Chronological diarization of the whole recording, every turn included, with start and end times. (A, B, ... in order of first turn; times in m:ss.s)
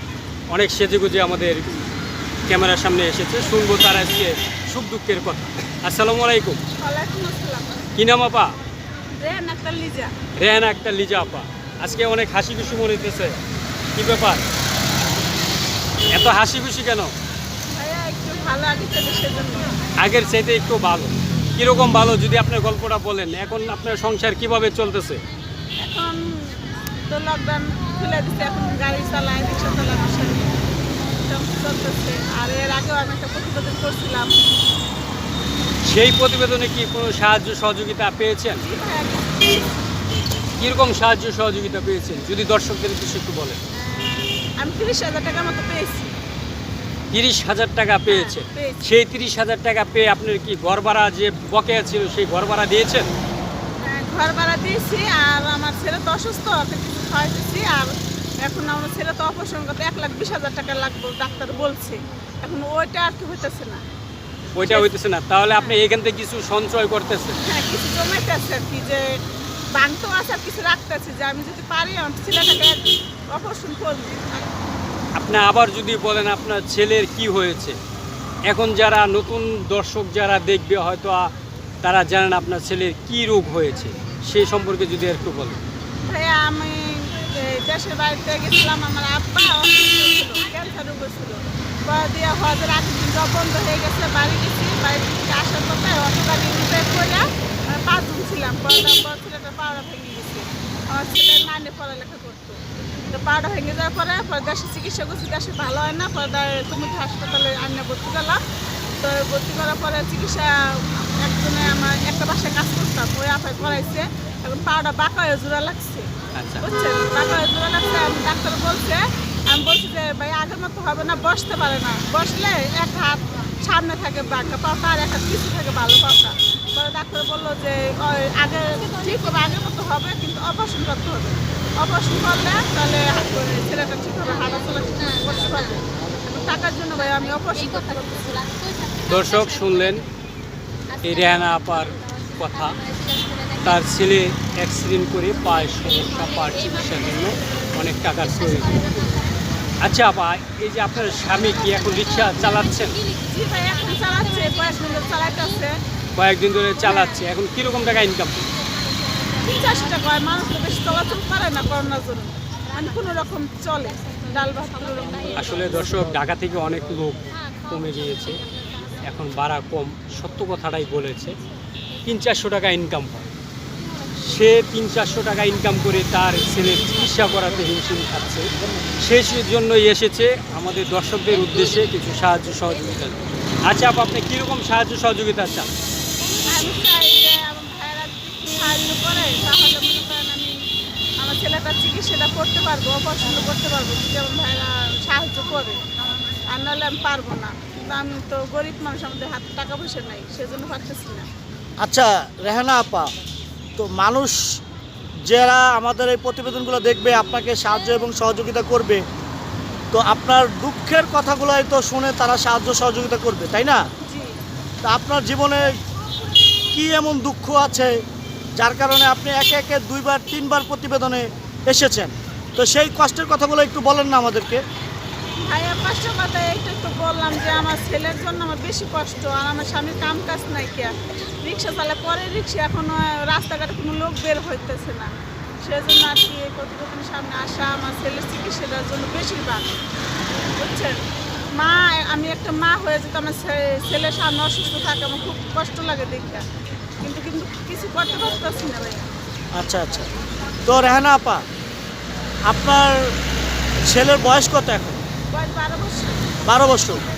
0:00.5-0:01.8 A
0:02.5-0:06.6 A
0:06.8-0:07.7 B
0:08.0-0:08.5 A
0:09.2-0:10.2 B
0:10.4-0:13.4 A
0:14.0-0:14.4 A
0:16.1-0:17.1 A
0:17.7-0:19.7 B
0:20.0-0:25.2 A
0:25.8-0:30.5 B
0:31.2-0:34.3 B
0:35.8-0:38.6 A
0:38.6-0:39.7 B
0:40.6-0:43.6 A
0:43.7-0:46.1 B
0:47.1-0:53.1 A
0:48.1-0:48.8 B
0:53.8-0:57.9 B
0:58.4-1:03.8 B
1:04.5-1:07.4 A
1:07.4-1:09.0 B
1:09.7-1:14.5 B
1:15.2-1:17.8 A
1:18.5-1:21.3 A
1:21.8-1:25.6 A
1:26.0-1:48.4 B
1:49.0-1:56.1 B
1:56.3-1:56.6 A
1:56.6-2:18.5 B
2:19.0-2:20.0 A
2:21.0-2:22.8 A
2:23.6-2:28.9 A
2:29.8-2:33.0 A
2:33.2-2:35.7 B
2:36.1-2:38.5 A
2:36.8-2:37.2 B
2:39.4-2:45.6 B
2:45.3-2:48.4 A
2:49.0-2:51.4 A
2:52.0-2:53.2 A
2:54.2-2:58.5 A
2:59.0-3:05.7 A
3:06.5-3:10.6 B
3:11.2-3:15.8 B
3:16.5-3:21.2 B
3:21.8-3:23.1 C
3:23.8-3:24.4 C
3:25.3-3:29.0 C
3:29.9-3:33.8 C
3:34.0-3:34.4 B
3:34.8-3:35.7 C
3:36.7-3:37.9 C
3:38.6-3:44.6 C
3:45.4-3:55.1 B
3:55.6-3:59.6 B
4:00.5-4:00.9 B
4:01.6-4:06.4 B
4:07.0-4:09.1 B
4:09.6-4:10.1 C
4:10.6-4:11.4 C
4:12.5-4:13.1 C
4:13.8-4:15.0 C
4:15.3-4:16.3 B
4:16.4-4:17.0 C